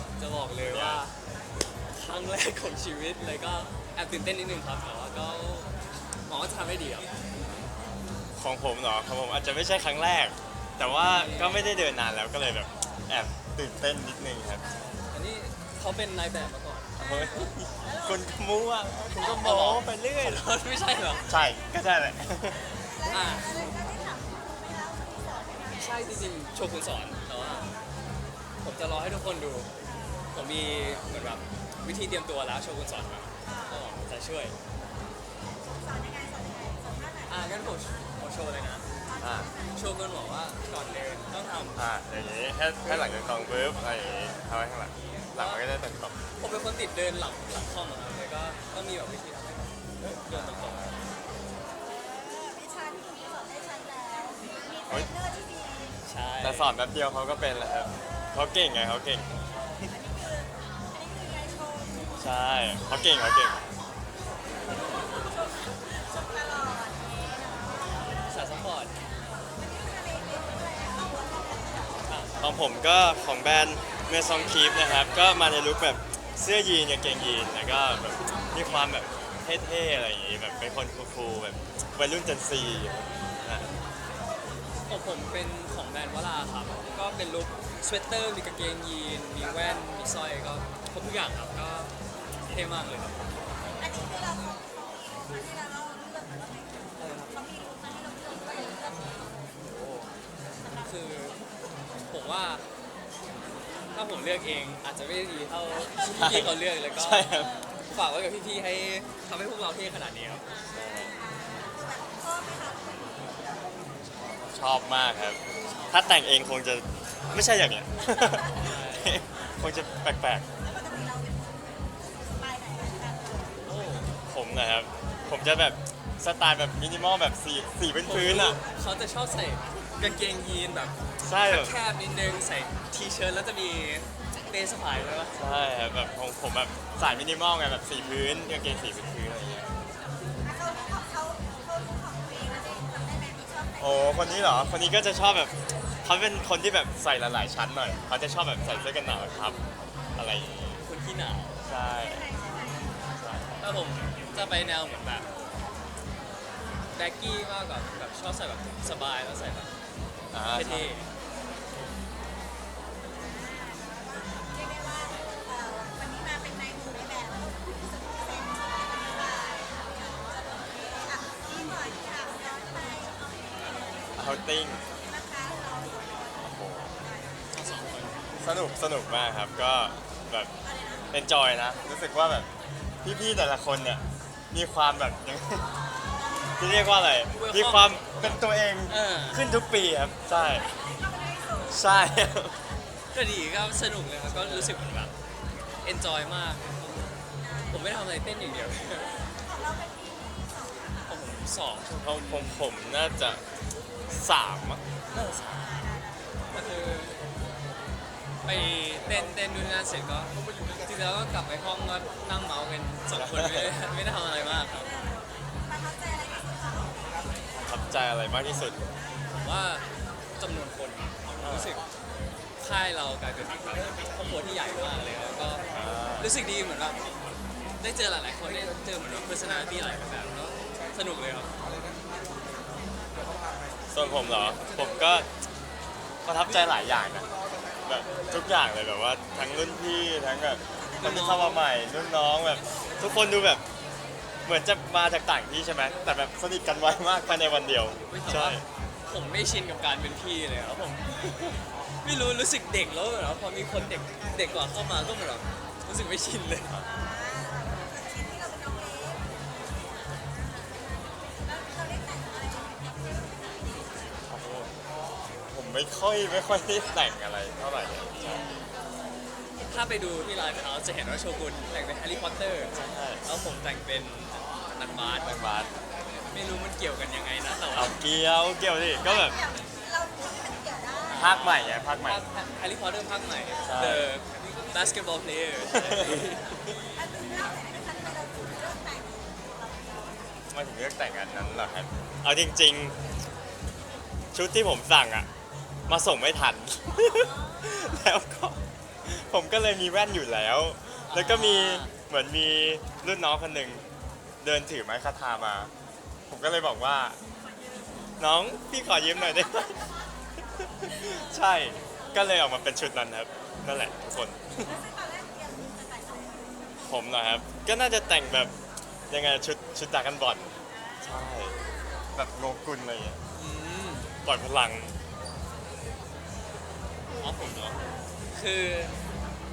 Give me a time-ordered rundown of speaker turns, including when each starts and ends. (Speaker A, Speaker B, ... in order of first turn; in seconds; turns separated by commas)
Speaker A: 0.2-1.1, Speaker B: 0.6-1.0, Speaker A: 1.9-5.7, Speaker A: 6.3-7.1, Speaker B: 8.3-14.7, Speaker A: 11.0-11.6, Speaker A: 15.1-16.9, Speaker B: 17.0-20.4, Speaker C: 17.0-18.5, Speaker A: 19.1-21.2, Speaker C: 20.7-21.3, Speaker B: 21.2-23.2, Speaker C: 22.6-26.5, Speaker A: 23.1-23.8, Speaker A: 25.8-27.7, Speaker C: 27.3-27.7, Speaker A: 28.6-29.7, Speaker A: 30.3-34.5, Speaker C: 33.5-33.8, Speaker C: 35.6-37.5, Speaker A: 37.3-38.9, Speaker C: 39.0-39.8, Speaker B: 39.2-39.5, Speaker A: 39.7-41.8, Speaker B: 41.8-46.1, Speaker A: 42.8-43.3, Speaker A: 45.3-45.6, Speaker A: 46.4-50.9, Speaker B: 50.3-50.9, Speaker C: 51.8-56.0, Speaker A: 56.0-56.7, Speaker B: 56.4-59.3, Speaker C: 59.9-62.2, Speaker B: 62.2-63.6, Speaker C: 62.9-63.4, Speaker C: 64.7-68.6, Speaker A: 68.3-68.9, Speaker C: 69.5-72.1, Speaker A: 72.1-72.4, Speaker B: 72.4-83.7, Speaker A: 84.9-91.9, Speaker A: 92.5-93.2, Speaker C: 93.8-99.3, Speaker A: 97.0-97.3, Speaker A: 99.7-100.1, Speaker C: 100.6-100.9, Speaker A: 100.8-101.4, Speaker A: 102.1-102.6, Speaker A: 103.9-107.3, Speaker B: 106.2-107.5, Speaker A: 107.9-110.4, Speaker B: 110.7-111.1, Speaker C: 110.7-113.5, Speaker B: 114.4-120.5, Speaker A: 118.6-119.2, Speaker C: 120.6-123.6, Speaker A: 123.6-124.1, Speaker B: 124.3-128.6, Speaker A: 128.0-135.4, Speaker B: 131.2-131.7, Speaker B: 135.3-139.7, Speaker C: 140.4-144.7, Speaker B: 143.8-149.6, Speaker B: 150.2-150.8, Speaker A: 150.8-151.6, Speaker B: 151.7-152.3, Speaker C: 152.0-153.3, Speaker B: 153.1-153.5, Speaker A: 153.6-155.3, Speaker A: 156.9-159.7, Speaker B: 160.3-160.9, Speaker A: 160.5-161.1, Speaker C: 163.2-174.2, Speaker B: 174.2-174.8, Speaker C: 175.0-177.4, Speaker B: 176.4-176.9, Speaker A: 177.5-178.3, Speaker B: 178.4-180.5, Speaker C: 180.6-181.1, Speaker B: 181.1-182.5, Speaker B: 183.0-185.7, Speaker B: 186.6-190.7, Speaker A: 187.3-189.4, Speaker C: 190.6-192.0, Speaker B: 191.6-192.6, Speaker A: 193.1-195.1, Speaker B: 194.3-194.8, Speaker A: 195.8-197.1, Speaker C: 197.4-197.9, Speaker A: 197.7-199.2, Speaker C: 199.1-201.1, Speaker A: 201.1-202.7, Speaker B: 202.0-203.4, Speaker B: 204.1-204.8, Speaker C: 205.1-206.4, Speaker A: 205.1-205.7, Speaker A: 206.5-207.2, Speaker A: 208.4-210.3, Speaker A: 210.8-215.1, Speaker B: 213.1-213.7, Speaker C: 214.8-217.4, Speaker B: 217.5-218.8, Speaker A: 219.3-219.9, Speaker A: 220.4-221.9, Speaker B: 221.4-221.8, Speaker A: 222.6-225.6, Speaker B: 225.7-226.3, Speaker A: 226.2-227.0, Speaker A: 227.8-231.5, Speaker B: 233.9-235.3, Speaker B: 236.2-237.3, Speaker B: 237.8-243.6, Speaker A: 241.0-241.6, Speaker B: 244.4-248.6, Speaker A: 248.1-256.7, Speaker C: 256.8-259.3, Speaker C: 260.3-260.8, Speaker C: 261.3-264.1, Speaker B: 264.3-264.7, Speaker B: 265.5-268.4, Speaker A: 268.1-268.7, Speaker A: 269.6-275.3, Speaker B: 272.7-273.2, Speaker B: 275.2-275.7, Speaker A: 276.3-277.9, Speaker B: 277.7-279.4, Speaker C: 279.0-281.3, Speaker B: 281.1-282.2, Speaker A: 281.1-286.6, Speaker B: 283.6-284.1, Speaker C: 286.9-290.4, Speaker B: 290.5-293.0, Speaker B: 294.3-295.3, Speaker B: 295.9-303.8, Speaker C: 297.0-297.9, Speaker A: 301.1-301.9, Speaker B: 304.4-305.7, Speaker B: 306.3-307.2, Speaker B: 308.2-309.9, Speaker C: 309.1-311.3, Speaker B: 310.8-314.8, Speaker C: 314.6-316.6, Speaker B: 316.8-318.5, Speaker B: 319.1-321.6, Speaker C: 320.8-322.1, Speaker B: 322.1-323.2, Speaker A: 323.3-324.1, Speaker B: 324.2-324.9, Speaker A: 327.2-328.9